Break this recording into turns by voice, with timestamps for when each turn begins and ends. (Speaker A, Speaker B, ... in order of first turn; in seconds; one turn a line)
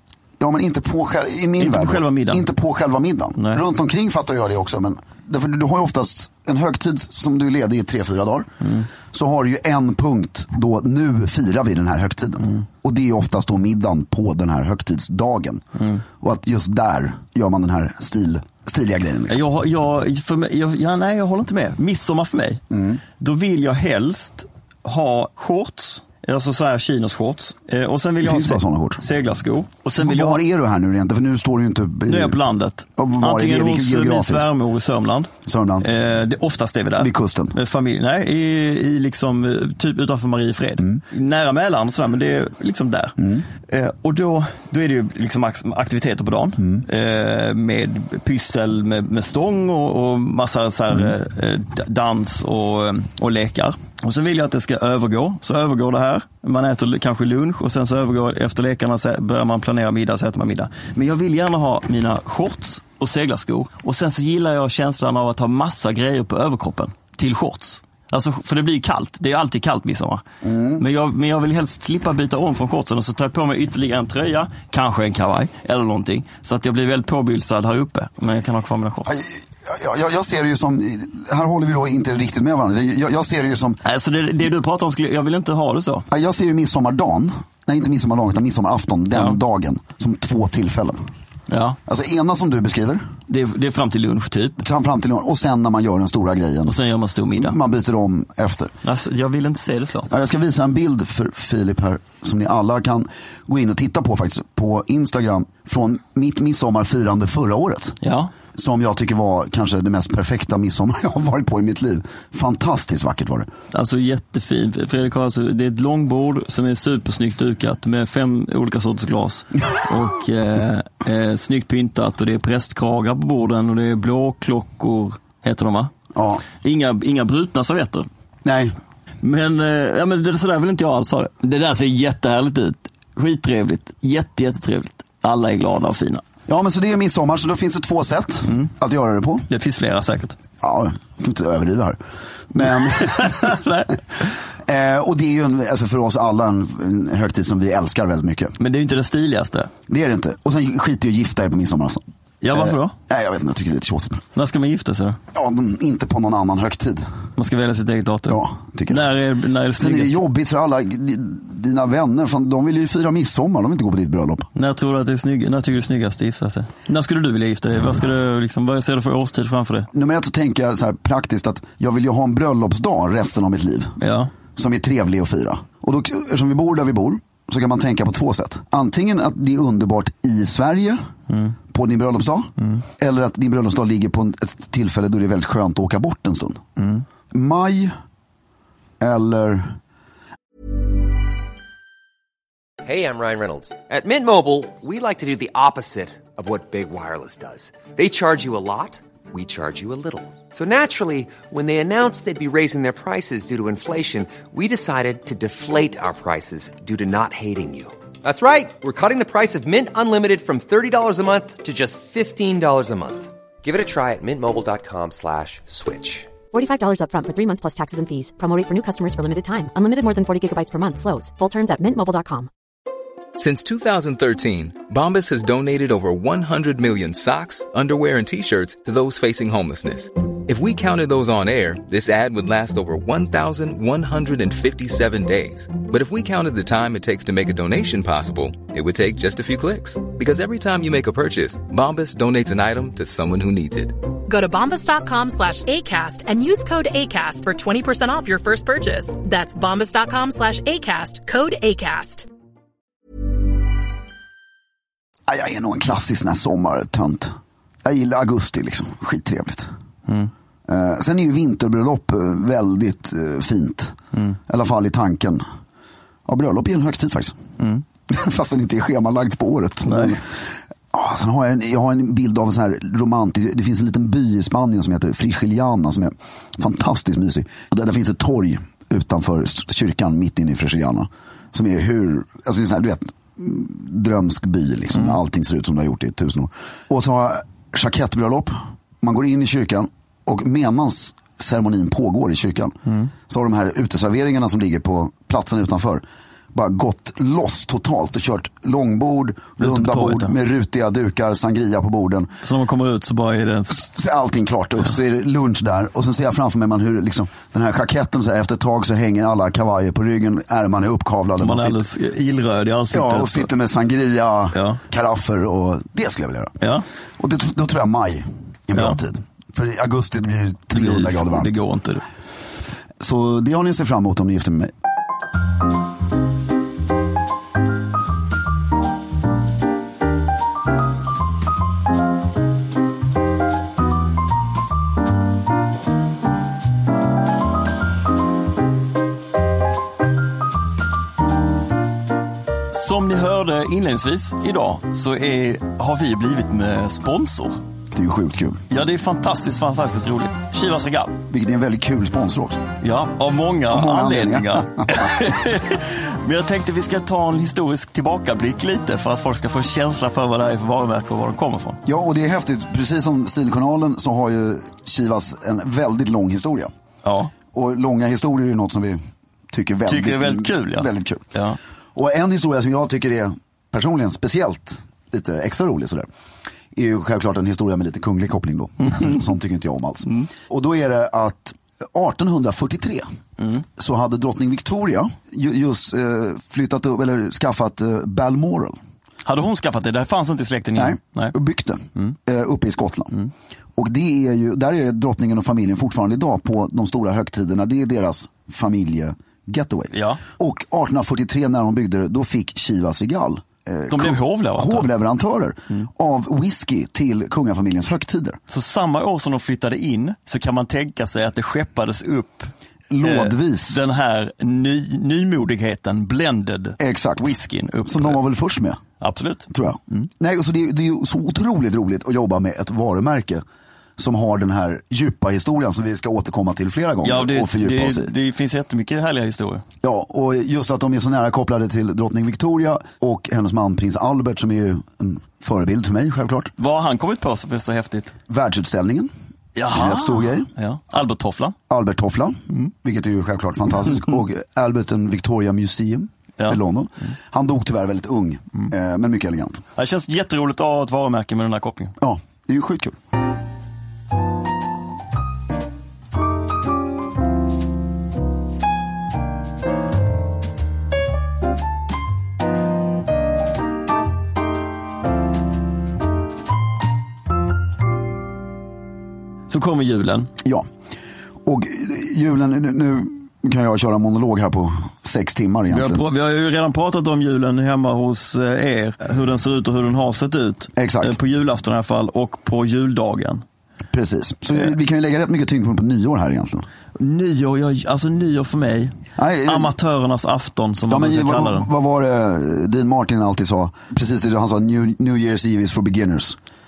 Speaker A: 0.4-19.4
Speaker B: 1.6-2.4
Speaker B: 8.6-8.9
Speaker B: 15.8-16.0
Speaker B: 19.3-22.6
Speaker A: 22.7-23.0
Speaker B: 23.2-30.4
Speaker A: 28.2-29.0
Speaker A: 30.0-32.4
Speaker B: 32.1-70.2
Speaker A: 33.0-34.5
Speaker A: 35.4-35.9
Speaker A: 37.0-37.6
Speaker A: 43.2-43.4
Speaker A: 70.4-70.8
Speaker B: 70.8-79.2
Speaker A: 79.0-83.8
Speaker B: 83.8-86.0
Speaker A: 86.1-91.0
Speaker B: 91.5-91.8
Speaker A: 91.8-93.0
Speaker B: 93.3-94.6
Speaker A: 94.6-96.8
Speaker B: 96.7-97.6
Speaker A: 97.3-98.7
Speaker B: 98.8-100.1
Speaker A: 100.1-108.0
Speaker B: 108.0-108.3
Speaker A: 108.5-113.5
Speaker B: 113.7-125.9
Speaker A: 126.1-126.5
Speaker B: 126.6-128.1
Speaker A: 128.4-128.8
Speaker B: 129.2-136.2
Speaker A: 136.5-139.5
Speaker B: 139.5-140.4
Speaker A: 140.6-142.0
Speaker A: 142.5-143.6
Speaker B: 142.6-144.0
Speaker A: 144.2-148.5
Speaker B: 148.6-149.7
Speaker A: 149.9-154.2
Speaker B: 152.4-152.9
Speaker B: 154.3-155.2
Speaker A: 155.3-157.1
Speaker B: 157.4-160.2
Speaker A: 158.3-159.1
Speaker A: 159.8-164.5
Speaker B: 164.5-169.9
Speaker A: 169.9-174.0
Speaker B: 174.0-174.3
Speaker A: 174.5-181.0
Speaker B: 181.3-181.6
Speaker A: 181.7-186.6
Speaker B: 182.6-182.8
Speaker B: 186.8-187.0
Speaker A: 187.3-187.9
Speaker A: 189.0-189.8
Speaker C: 192.8-216.3
Speaker D: 216.5-222.5
Speaker E: 223.4-243.9
Speaker F: 244.3-252.2
Speaker A: 255.3-259.7
Speaker A: 260.7-265.4
Speaker A: 266.2-267.4
Speaker A: 268.1-292.8
Speaker B: 269.9-270.2
Speaker B: 292.9-293.1
Speaker A: 293.3-302.3
Speaker B: 299.6-300.3
Speaker B: 302.4-303.9
Speaker A: 303.7-311.8
Speaker B: 311.4-313.5
Speaker A: 312.9-316.6
Speaker B: 314.5-314.8
Speaker A: 317.2-321.6
Speaker B: 320.7-322.0
Speaker A: 323.0-324.7
Speaker B: 342.7-347.6
Speaker A: 347.9-348.6
Speaker B: 348.7-351.2
Speaker A: 351.3-352.7
Speaker B: 352.8-361.8
Speaker A: 353.7-355.1
Speaker A: 361.9-366.7
Speaker B: 367.0-367.3
Speaker A: 367.5-369.0
Speaker A: 369.5-371.2
Speaker B: 369.9-371.6
Speaker A: 371.9-376.1
Speaker A: 376.7-383.0
Speaker B: 378.8-379.2
Speaker B: 383.4-383.6
Speaker A: 383.8-388.8
Speaker B: 389.2-391.3
Speaker A: 390.8-393.1
Speaker A: 393.8-408.4
Speaker B: 399.9-400.2
Speaker B: 403.9-404.9
Speaker B: 408.5-418.2
Speaker A: 412.9-413.8
Speaker A: 416.8-417.3
Speaker A: 417.9-418.8
Speaker B: 419.0-420.1
Speaker A: 419.5-423.4
Speaker A: 424.0-428.1
Speaker B: 427.0-429.6
Speaker A: 429.8-436.5
Speaker B: 436.6-438.1
Speaker A: 438.3-439.1
Speaker B: 439.6-441.6
Speaker A: 439.7-440.5
Speaker A: 441.7-449.6
Speaker B: 449.8-452.0
Speaker A: 452.0-452.9
Speaker B: 469.5-470.3
Speaker A: 470.4-470.7
Speaker A: 471.4-476.0
Speaker B: 475.7-483.4
Speaker A: 480.8-481.2
Speaker A: 483.9-486.7
Speaker B: 487.0-488.9
Speaker A: 489.2-489.7
Speaker B: 489.5-491.7
Speaker A: 490.9-496.4